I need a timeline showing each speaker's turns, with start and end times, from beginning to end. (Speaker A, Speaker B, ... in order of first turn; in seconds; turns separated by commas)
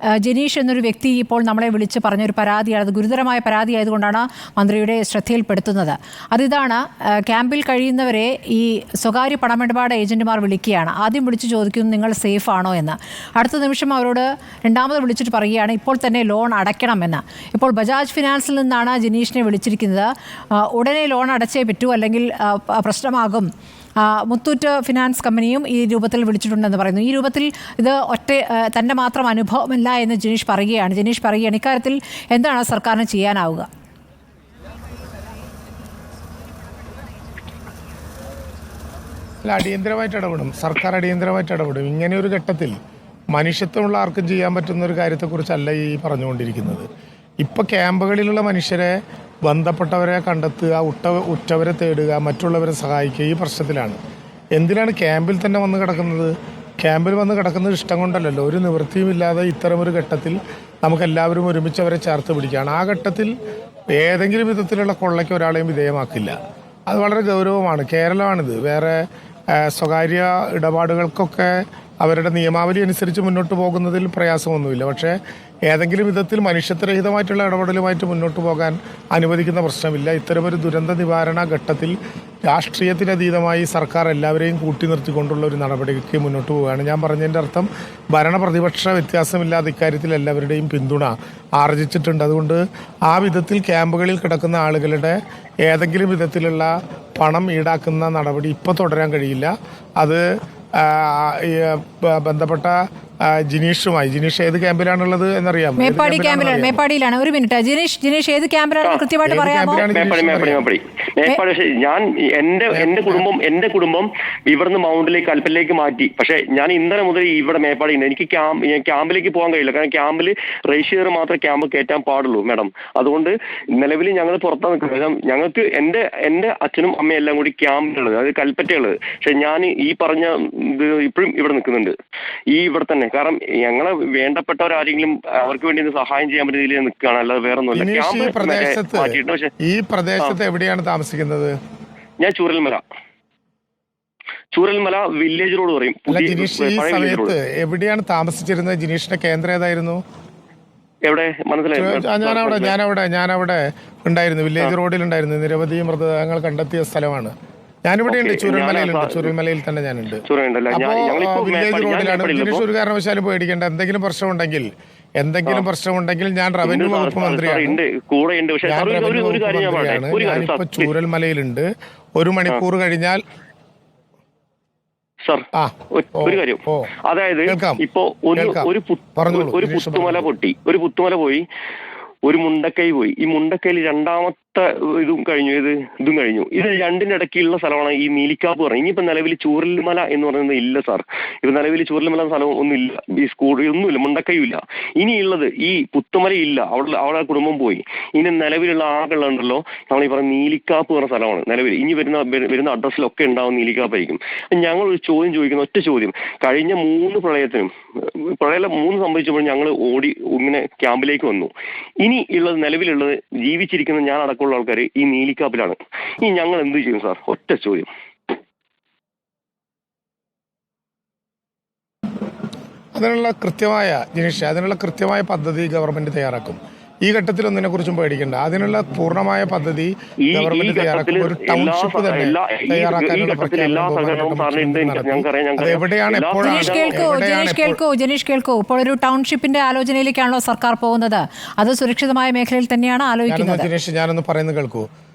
Speaker A: 0.2-23.5, Speaker A: 24.0-33.7, Speaker B: 39.4-42.7, Speaker B: 43.3-46.9, Speaker B: 47.4-54.0, Speaker B: 54.5-63.3, Speaker B: 63.9-66.4, Speaker B: 66.9-75.2, Speaker B: 75.7-82.0, Speaker B: 82.5-100.2, Speaker B: 100.8-106.8, Speaker A: 105.8-109.9, Speaker B: 109.2-110.7, Speaker C: 109.8-131.9, Speaker B: 112.7-113.3, Speaker C: 132.5-139.5, Speaker B: 137.8-141.6, Speaker C: 142.2-142.8, Speaker C: 144.5-147.4, Speaker B: 146.1-150.0, Speaker C: 151.1-152.8, Speaker B: 151.7-157.3, Speaker B: 157.8-164.7, Speaker C: 158.1-159.3, Speaker C: 160.3-162.6, Speaker B: 165.2-167.8, Speaker C: 166.6-170.9, Speaker B: 168.6-173.2, Speaker C: 175.2-181.4, Speaker B: 175.5-176.9, Speaker B: 177.5-177.8, Speaker B: 178.4-180.3, Speaker C: 182.2-217.9, Speaker B: 222.9-237.8, Speaker C: 230.3-237.2, Speaker A: 236.4-243.7, Speaker B: 243.3-244.9